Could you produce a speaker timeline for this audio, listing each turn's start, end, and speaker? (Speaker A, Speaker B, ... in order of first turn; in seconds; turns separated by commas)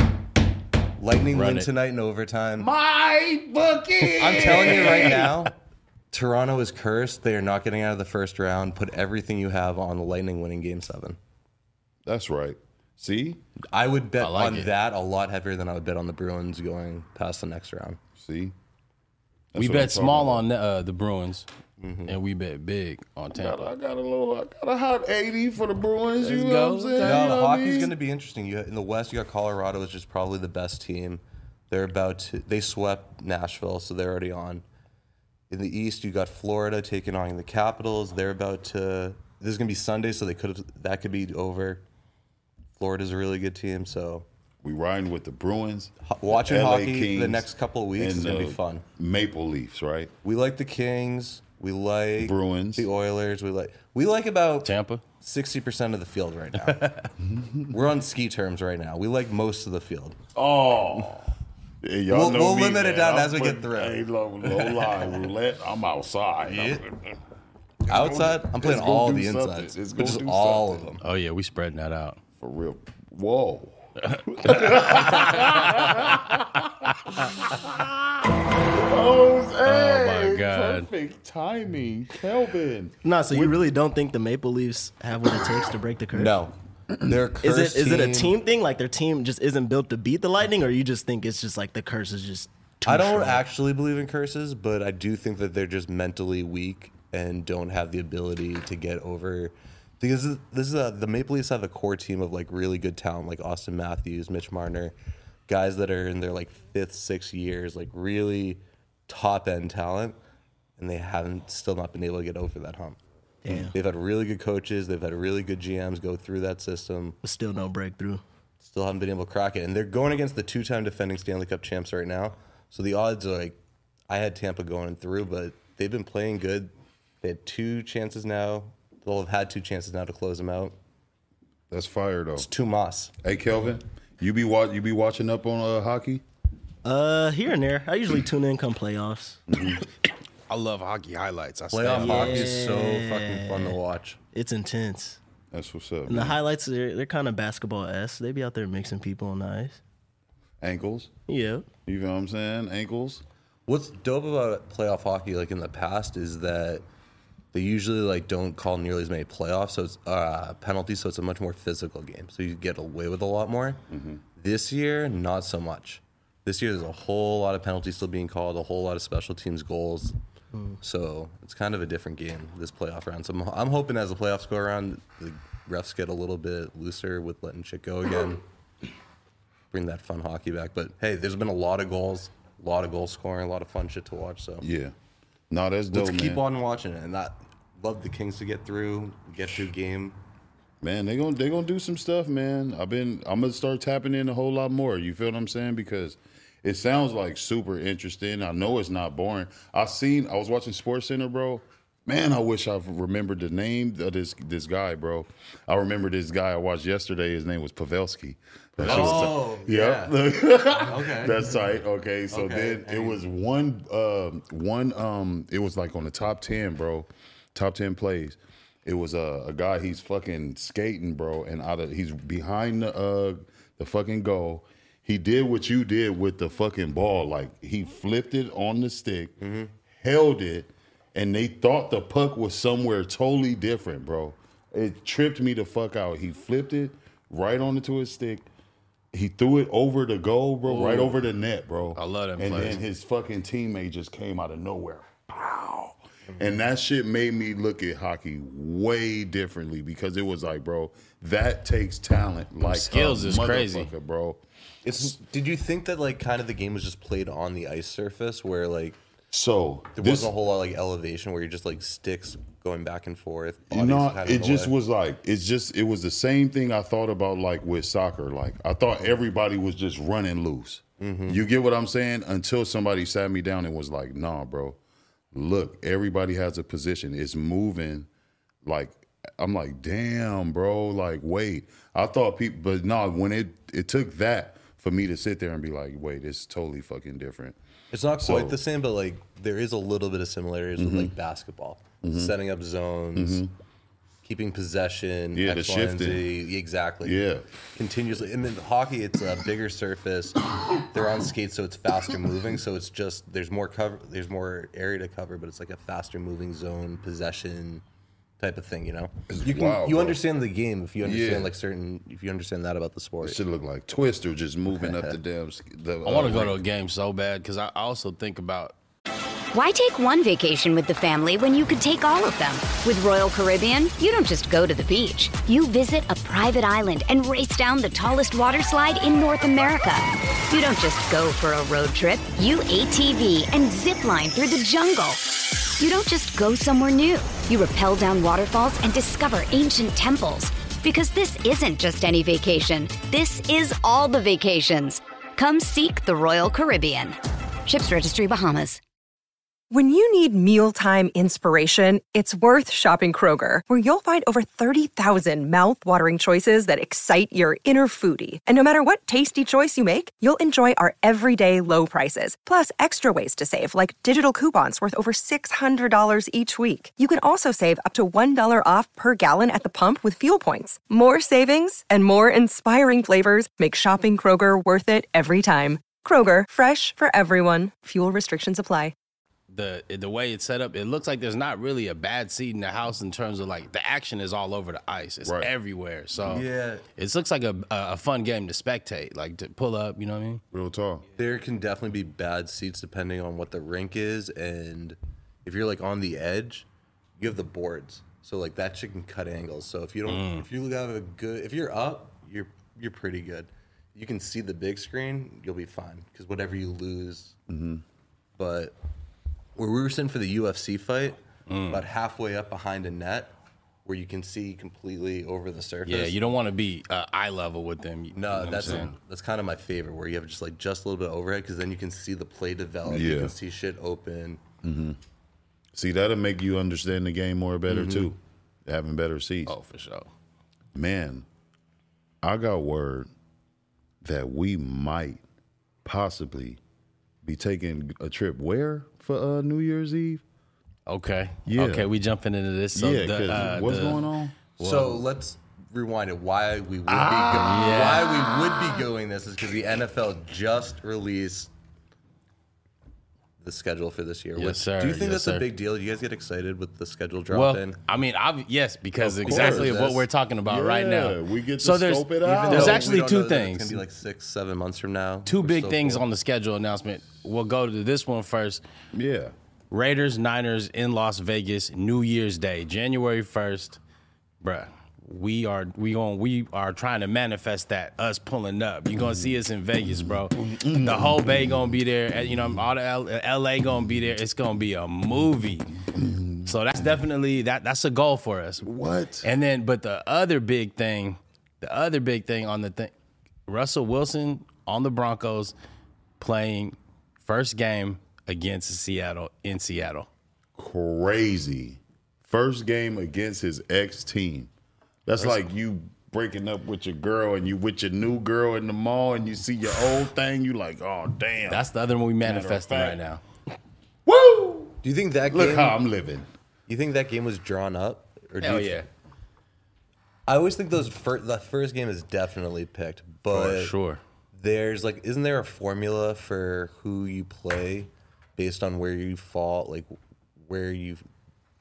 Speaker A: 1.0-2.7, Speaker B: 1.3-1.7, Speaker C: 2.6-5.4, Speaker A: 4.2-5.5, Speaker A: 6.1-11.2, Speaker C: 12.1-13.4, Speaker A: 13.7-18.0, Speaker B: 14.2-14.7, Speaker C: 18.2-18.6, Speaker C: 19.5-20.4, Speaker B: 19.6-21.5, Speaker A: 21.8-22.2, Speaker B: 22.1-23.7, Speaker C: 23.4-27.9, Speaker B: 26.2-27.3, Speaker A: 27.0-34.6, Speaker A: 35.5-41.8, Speaker A: 42.8-44.3, Speaker C: 44.6-50.1, Speaker A: 46.0-48.9, Speaker A: 50.2-57.0, Speaker C: 52.2-52.9, Speaker B: 54.6-55.0, Speaker B: 56.6-57.1, Speaker C: 57.2-57.8, Speaker A: 57.7-60.2, Speaker C: 60.4-61.3, Speaker C: 61.8-67.1, Speaker A: 62.1-64.0, Speaker A: 66.5-66.9, Speaker C: 67.9-71.0, Speaker A: 67.9-71.0, Speaker B: 71.0-72.2, Speaker C: 72.4-83.6, Speaker B: 74.0-76.0, Speaker B: 79.7-80.9, Speaker D: 83.0-86.4, Speaker A: 86.1-88.3, Speaker D: 87.4-93.4, Speaker A: 92.8-105.0, Speaker A: 105.5-110.2, Speaker A: 110.8-113.0, Speaker D: 113.4-113.7, Speaker A: 113.5-117.2, Speaker D: 117.2-118.2, Speaker A: 118.6-123.6, Speaker A: 124.1-130.8, Speaker C: 131.7-132.5, Speaker A: 132.4-133.1, Speaker C: 133.2-136.2, Speaker D: 136.8-139.4, Speaker C: 139.5-139.8, Speaker B: 140.5-142.6, Speaker A: 141.7-144.2, Speaker D: 142.0-143.8, Speaker D: 144.3-145.2, Speaker C: 145.5-146.4, Speaker D: 146.1-149.8, Speaker C: 150.6-151.1, Speaker D: 151.3-151.7, Speaker C: 151.9-153.2, Speaker A: 153.7-156.8, Speaker A: 157.5-163.8, Speaker C: 163.9-164.2, Speaker A: 164.4-170.2, Speaker A: 170.8-178.4, Speaker A: 179.7-184.7, Speaker C: 184.6-184.9, Speaker C: 185.5-186.4, Speaker A: 185.9-190.2, Speaker C: 190.8-229.3, Speaker A: 208.8-210.2, Speaker B: 208.8-209.3, Speaker A: 210.7-211.6, Speaker A: 212.3-213.2, Speaker A: 229.4-229.7, Speaker C: 229.9-238.5, Speaker C: 239.1-254.4, Speaker B: 240.7-241.2, Speaker B: 241.9-242.8, Speaker B: 252.6-253.9, Speaker A: 254.8-259.0, Speaker C: 259.3-260.3, Speaker A: 259.9-264.7, Speaker C: 263.7-274.8, Speaker A: 271.0-271.4, Speaker C: 275.3-278.1, Speaker C: 278.6-287.6, Speaker A: 287.9-293.4, Speaker C: 288.2-288.6, Speaker C: 290.8-291.1, Speaker C: 292.0-292.4, Speaker C: 293.1-293.5, Speaker A: 294.2-297.2, Speaker C: 295.3-296.3, Speaker C: 297.0-297.5, Speaker A: 297.8-307.8, Speaker A: 308.4-313.4, Speaker C: 309.3-310.2, Speaker C: 311.0-311.5, Speaker C: 313.2-316.6, Speaker A: 314.7-315.2, Speaker B: 316.1-318.7, Speaker E: 319.5-348.8, Speaker F: 349.7-378.9, Speaker B: 379.5-390.4, Speaker C: 385.2-385.5, Speaker A: 386.2-386.9, Speaker C: 390.5-391.1, Speaker A: 391.2-396.7, Speaker A: 397.2-407.4, Speaker B: 400.1-400.5, Speaker C: 407.5-407.8, Speaker A: 408.4-408.8, Speaker A: 409.6-411.2, Speaker B: 411.5-411.8, Speaker A: 411.7-413.3, Speaker A: 413.9-416.2, Speaker B: 415.9-418.9, Speaker A: 418.1-424.4, Speaker C: 418.5-418.9, Speaker C: 422.9-423.4, Speaker C: 424.6-425.0, Speaker C: 425.7-429.6, Speaker A: 427.7-428.1, Speaker B: 429.5-430.1, Speaker C: 430.7-431.3, Speaker C: 432.2-433.1, Speaker C: 434.0-435.2, Speaker C: 435.9-436.6, Speaker C: 437.2-440.2, Speaker B: 440.9-445.0, Speaker C: 441.5-441.9, Speaker C: 442.7-444.4, Speaker A: 444.6-451.5, Speaker C: 446.9-448.9, Speaker B: 447.3-448.1, Speaker A: 453.4-457.8, Speaker B: 454.4-455.5, Speaker B: 457.3-463.8, Speaker C: 459.0-459.8, Speaker A: 459.2-460.1, Speaker C: 460.4-462.9, Speaker A: 462.2-466.1, Speaker B: 465.3-468.6, Speaker C: 468.9-469.3, Speaker B: 469.7-473.8, Speaker B: 474.4-485.8, Speaker C: 478.9-481.8, Speaker C: 485.9-486.9, Speaker B: 486.4-488.7, Speaker C: 488.6-489.3, Speaker B: 489.2-492.9, Speaker B: 493.5-495.5, Speaker B: 496.2-500.1, Speaker C: 500.6-504.5, Speaker C: 505.1-511.7, Speaker B: 505.2-505.5, Speaker B: 511.5-513.2, Speaker C: 512.2-513.0, Speaker C: 514.1-514.8, Speaker A: 514.8-515.8, Speaker C: 515.3-516.3, Speaker A: 516.7-518.8, Speaker B: 518.4-518.9, Speaker A: 520.3-523.7, Speaker B: 523.3-524.0, Speaker A: 524.3-531.0